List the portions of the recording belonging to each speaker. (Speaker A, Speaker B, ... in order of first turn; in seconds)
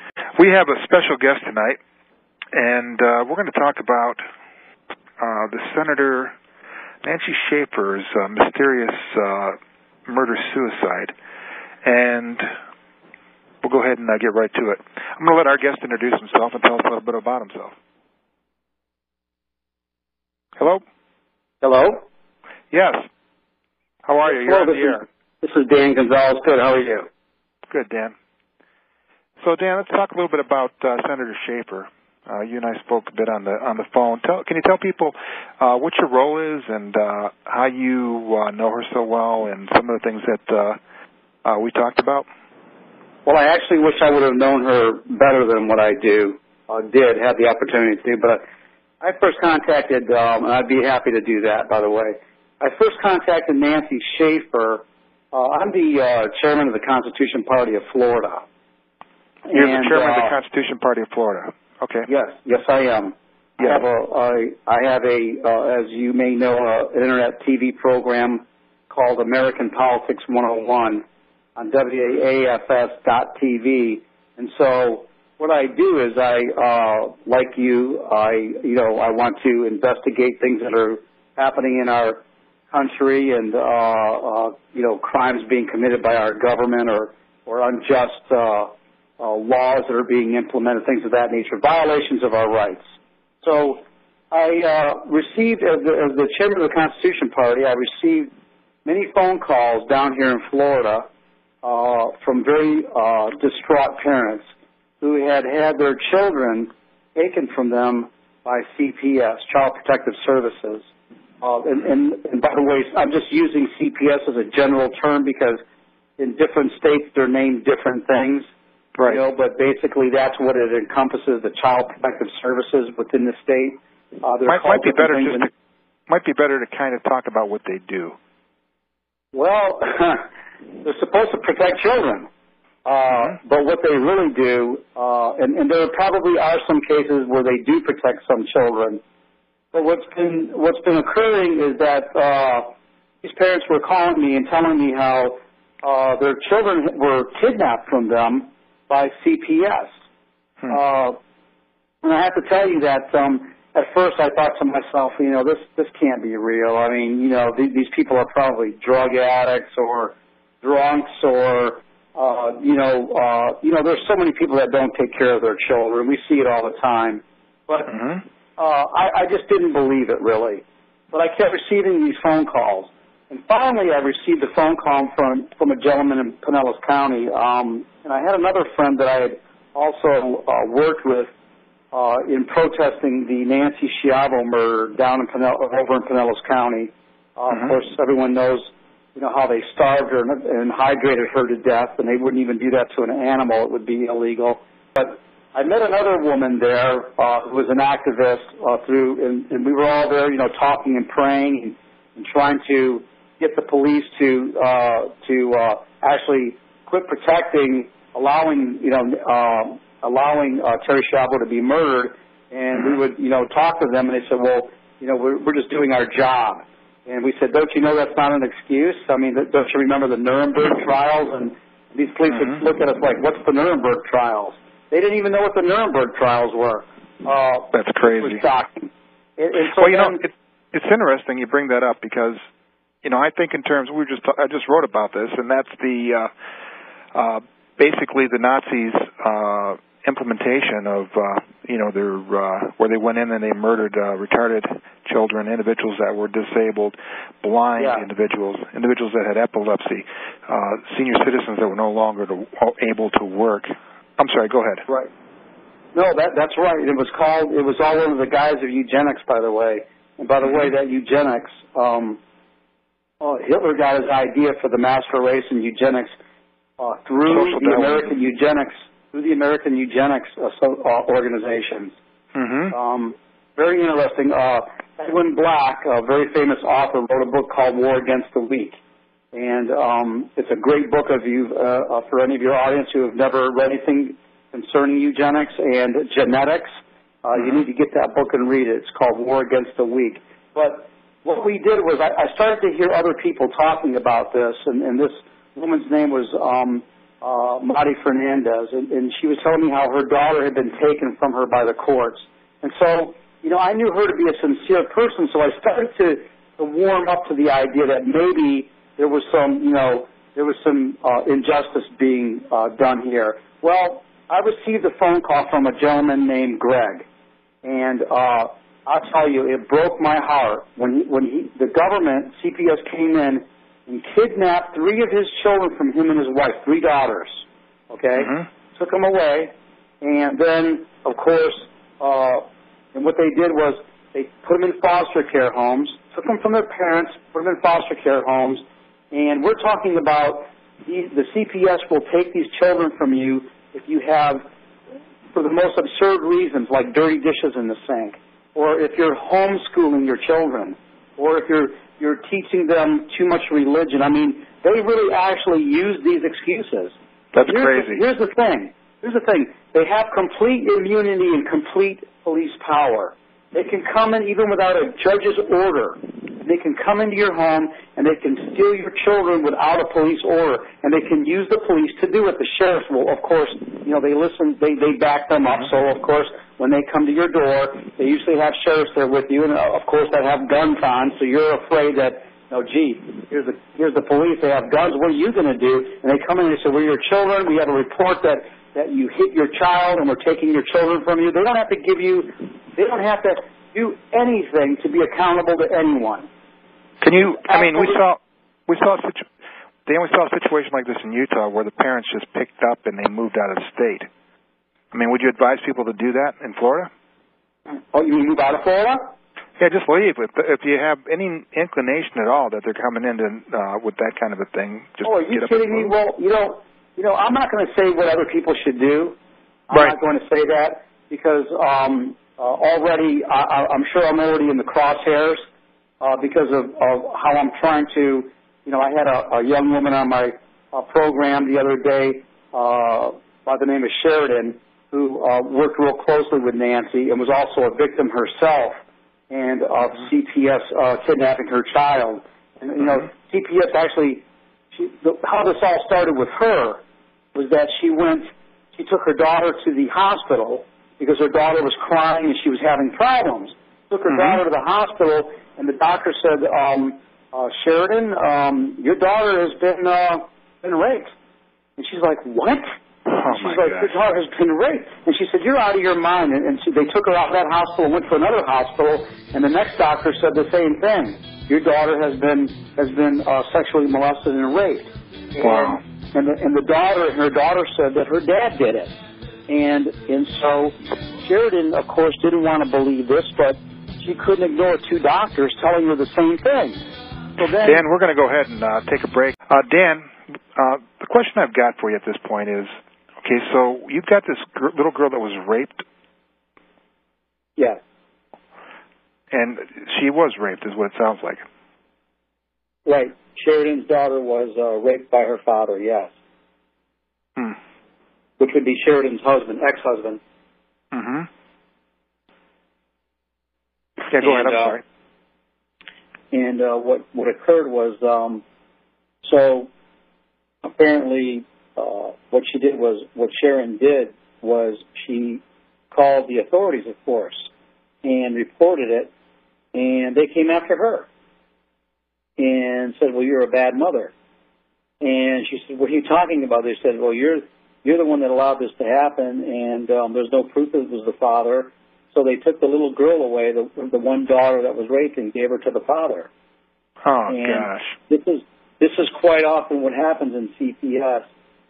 Speaker A: 0.4-1.8, 2.5-4.2, 5.2-6.3, 7.0-11.1, 11.8-12.5, 13.6-17.7, 20.6-20.8, 22.7-23.0, 24.1-25.0, 27.7-28.1, 29.4-40.8, 41.4-42.3, 59.5-62.1, 124.5-125.5, 126.1-128.1, 167.9-168.2, 227.7-228.4, 229.8-232.4, 233.0-236.3, 237.1-254.8, 267.3-268.1, 272.3-272.7, 328.2-328.4, 357.3-358.0, 397.0-399.2, 399.9-404.1, 404.9-406.9, 409.6-415.9, 454.1-454.4, 463.1-463.9, 475.4-475.8, 487.6-490.0, 490.6-492.7, 493.2-495.8, 499.3-501.4, 510.9-511.3, 514.1-514.8, 547.0-547.9
Speaker B: 21.6-22.0, 24.2-27.1, 43.2-48.4, 49.0-58.4, 59.5-60.3, 62.1-71.0, 71.6-92.8, 93.4-98.3, 98.8-101.0, 101.6-104.4, 105.0-110.9, 111.4-115.6, 116.2-118.5, 119.0-125.5, 129.3-130.2, 130.8-132.3, 132.8-139.0, 139.7-142.7, 143.2-149.9, 150.7-151.2, 152.0-167.9, 168.6-181.3, 181.9-230.2, 247.8-248.1, 255.9-262.2, 263.2-266.1, 266.8-271.9, 272.7-278.8, 279.3-286.7, 287.2-317.1, 317.6-344.4, 345.3-396.3, 397.2-398.0, 407.9-409.1, 415.0-419.2, 419.7-425.4, 426.0-446.8, 447.3-461.1, 461.8-462.6, 463.2-478.9, 479.5-486.8, 487.4-487.8, 502.9-506.1, 508.4-510.2, 514.2-514.8, 516.3-518.4, 519.2-519.7, 520.6-525.4, 525.9-527.5, 528.0-529.1, 529.7-531.1, 532.4-534.1, 535.0-546.3, 547.3-551.2